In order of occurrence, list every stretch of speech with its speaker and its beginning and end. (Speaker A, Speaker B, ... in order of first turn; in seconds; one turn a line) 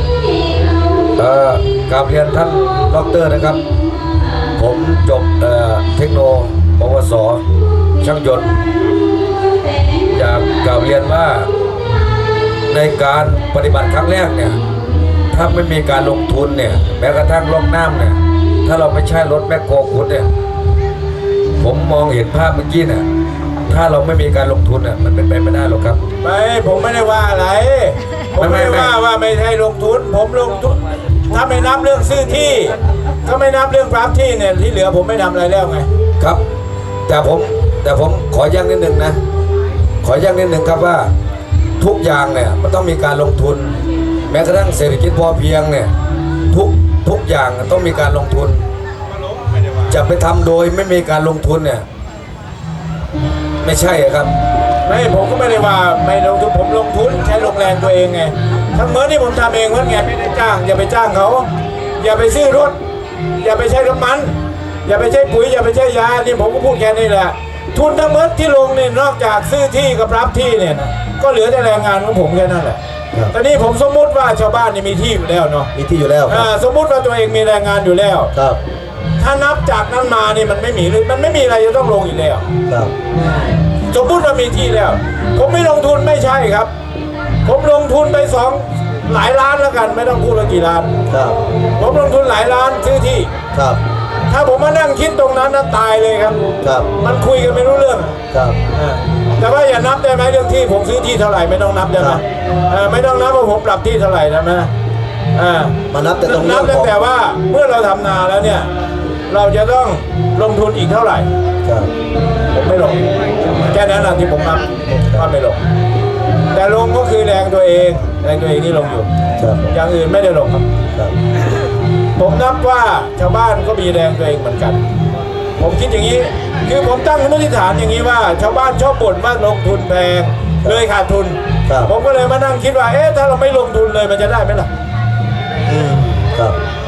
Speaker A: 1.2-3.6
Speaker A: 4.6-7.4
Speaker A: 8.0-8.5
Speaker A: 10.1-11.5
Speaker A: 12.7-14.6
Speaker A: 15.3-20.3
Speaker A: 21.6-23.1
Speaker A: 23.7-26.0
Speaker B: 26.2-35.9
Speaker A: 28.4-28.9
Speaker A: 37.1-39.2
Speaker A: 40.0-41.1
Speaker A: 41.8-43.8
Speaker A: 44.3-45.9
Speaker A: 46.5-48.6
Speaker A: 49.9-51.9
Speaker A: 53.6-54.3
Speaker B: 54.9-61.5
Speaker B: 62.0-62.8
Speaker B: 63.4-64.3
Speaker B: 64.9-72.8
Speaker B: 73.3-75.7
Speaker C: 75.7-76.5
Speaker B: 76.3-78.3
Speaker C: 78.3-78.6
Speaker B: 79.2-82.5
Speaker C: 82.7-82.9
Speaker B: 83.9-86.7
Speaker B: 87.5-90.9
Speaker C: 91.1-91.4
Speaker B: 91.8-93.3
Speaker C: 93.5-93.8
Speaker B: 94.3-96.4
Speaker C: 96.6-96.9
Speaker B: 97.0-98.2
Speaker C: 98.3-98.6
Speaker B: 98.7-104.7
Speaker C: 102.0-102.2
Speaker B: 105.4-108.7
Speaker C: 105.9-106.9
Speaker B: 109.3-111.3
Speaker C: 111.6-111.9
Speaker B: 112.5-115.6
Speaker C: 114.9-115.3
Speaker B: 116.5-119.1
Speaker C: 119.4-119.7
Speaker B: 119.7-120.7
Speaker B: 122.2-124.8
Speaker B: 125.6-134.7
Speaker C: 135.7-136.6